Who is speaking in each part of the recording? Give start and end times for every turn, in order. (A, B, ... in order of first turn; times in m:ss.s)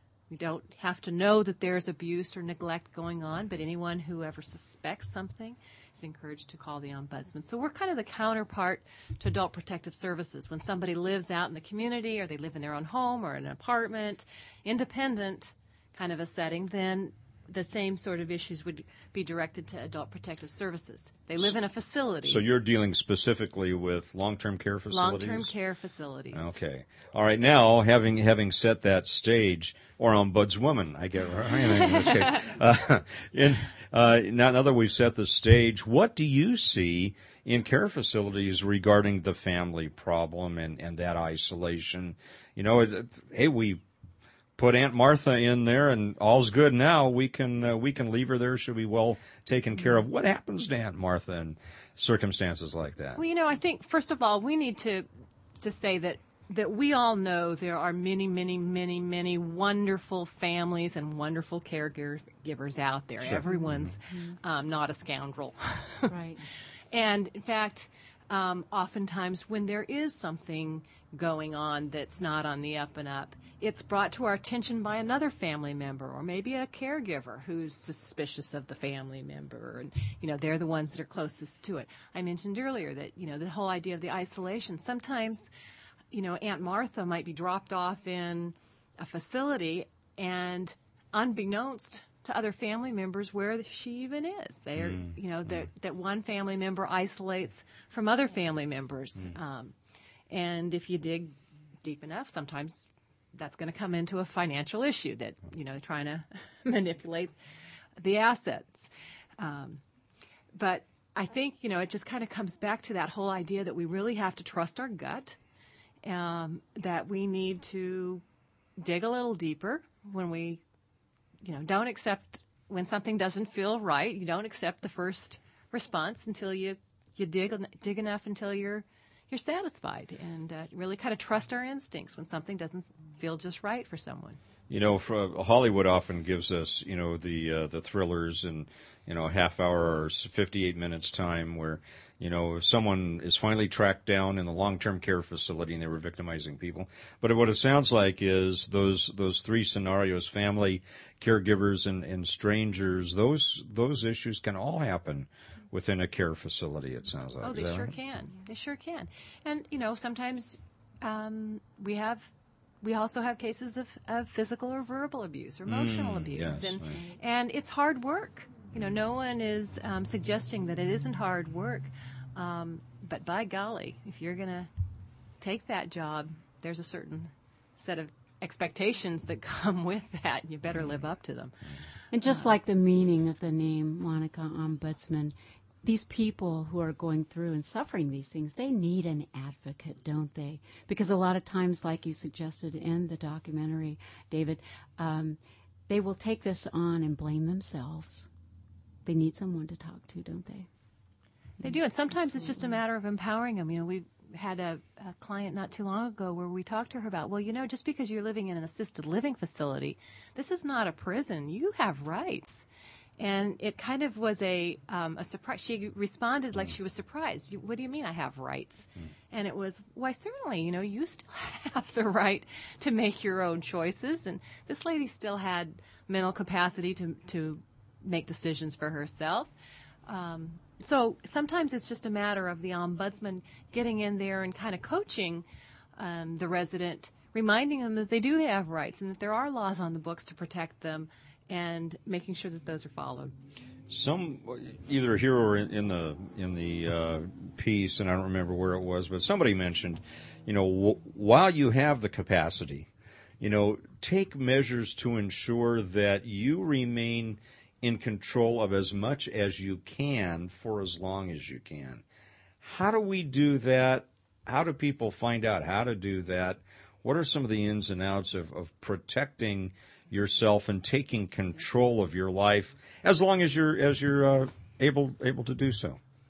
0:00.3-0:22.4 A
0:22.2-0:25.5 B
0:24.9-0:26.6 A
0:26.3-0:43.8 B
0:31.8-0:32.1 A
0:44.6-0:53.2 B
0:53.2-0:55.1 A
0:55.6-1:06.1 A
1:03.2-1:03.9 B
1:03.5-1:04.4 C
1:06.1-1:06.4 C
1:06.9-1:25.5 A
1:26.1-1:39.7 A
1:34.8-1:35.6 B
1:40.3-1:47.3 A
1:48.0-1:49.8 A
1:50.6-1:55.4 A
1:56.0-1:58.2 A
1:58.8-2:00.6 A
2:01.4-2:14.4 A
2:14.7-2:38.0 B
2:37.4-2:42.3 A
2:42.8-2:54.7 A
2:45.7-2:46.9 B
2:55.4-3:01.5 A
3:02.1-3:18.3 C
3:19.1-3:20.7 C
3:21.6-3:22.8 C
3:21.6-3:32.7 A
3:33.2-3:49.5 A
3:50.1-3:55.4 A
3:56.0-4:03.3 A
4:03.9-4:12.9 B
4:13.4-4:22.0 B
4:22.6-4:36.0 B